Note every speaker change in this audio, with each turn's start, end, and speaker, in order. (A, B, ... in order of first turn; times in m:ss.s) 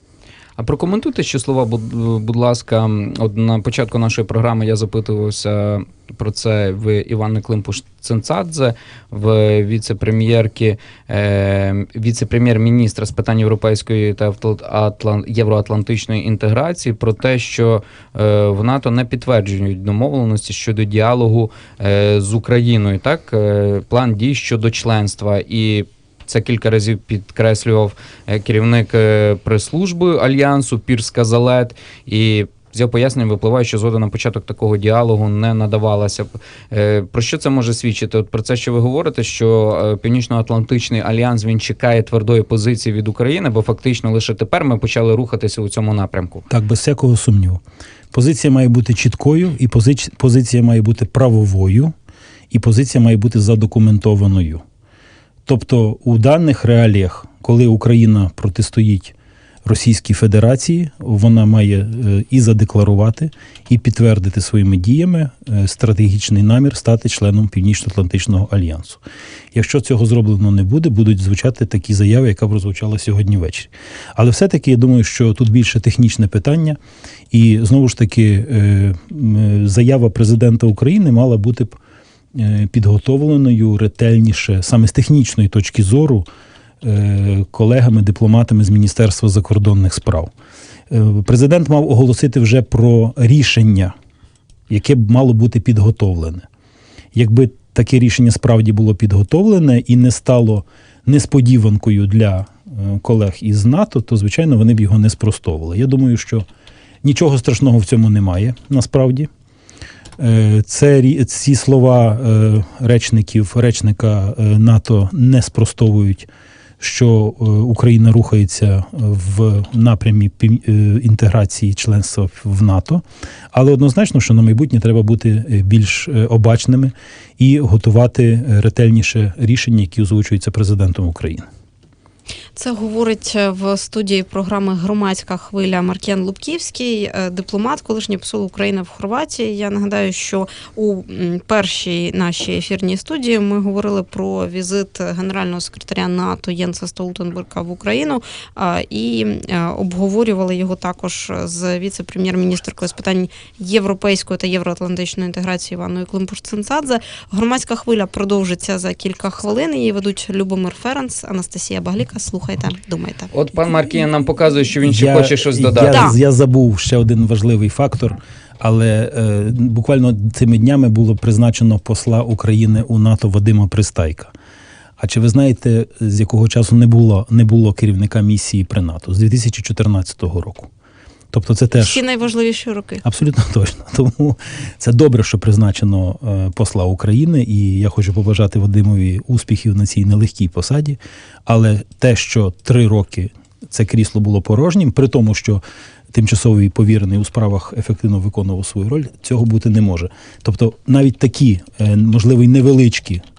0:00.6-0:46.4 A
0:46.5-0:47.6 B
0:48.1-0:51.9 B
0:52.5-0:54.6 B
0:55.5-1:09.0 B
1:09.5-1:16.8 B
1:17.3-1:21.8 B
1:22.3-1:26.3 B
1:26.8-1:30.3 B
1:30.9-1:33.9 B
1:34.7-1:36.5 B
1:37.1-1:46.5 B
1:47.0-1:49.3 B
1:50.2-1:56.3 B
1:56.8-2:11.5 B
2:12.6-2:43.3 C
2:43.3-2:46.1 A
2:44.8-2:54.3 B
2:45.9-2:46.2 C
2:55.0-3:00.7 B
3:01.3-3:02.0 B
3:01.8-3:03.0 C
3:03.0-3:23.2 B